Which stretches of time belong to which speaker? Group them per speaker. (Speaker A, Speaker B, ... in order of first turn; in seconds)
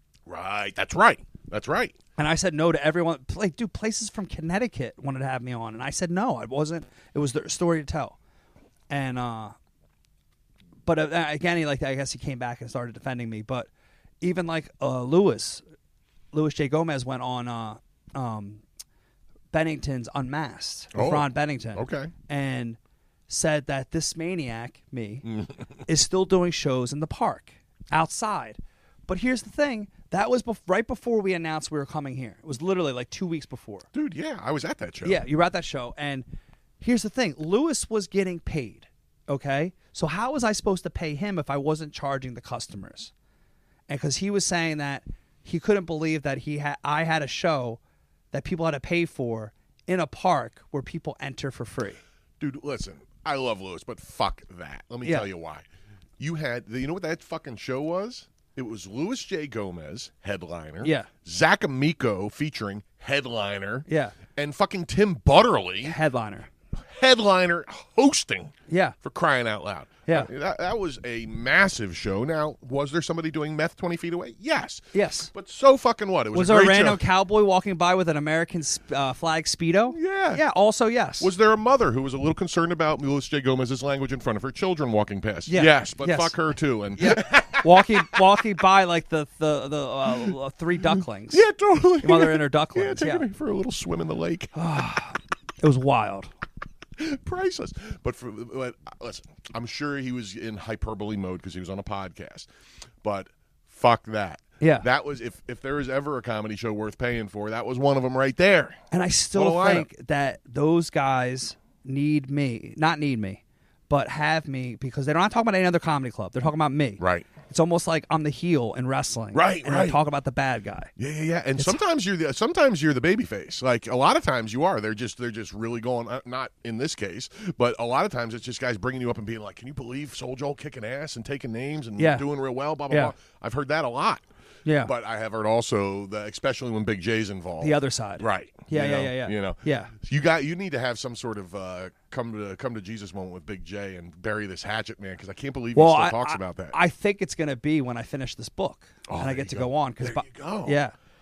Speaker A: 0.3-1.9, 20.9-22.1, 25.2-25.8, 33.9-35.2, 52.4-55.6, 56.2-66.0, 66.7-77.0, 79.9-80.4, 81.2-88.2, 91.3-94.5, 97.0-102.5, 103.0-108.8, 109.3-109.9, 117.0-117.3, 119.3-120.0, 121.0-134.2, 134.8-146.8, 149.1-150.8
Speaker B: 2.2-8.2, 8.9-9.5, 10.8-13.7, 14.2-15.6, 16.3-18.6, 19.5-25.2, 25.9-33.9, 35.0-36.2, 36.8-43.1, 43.9-47.8, 48.3-52.0, 60.8-61.1, 63.9-64.2, 65.8-66.5, 68.7-69.0, 74.9-75.3, 76.3-81.3, 85.5-86.3, 87.0-91.4, 92.0-93.2, 94.5-96.3, 104.6-104.8, 108.9-120.9, 132.0-132.2, 134.6-134.9, 137.6-139.9, 145.7-150.9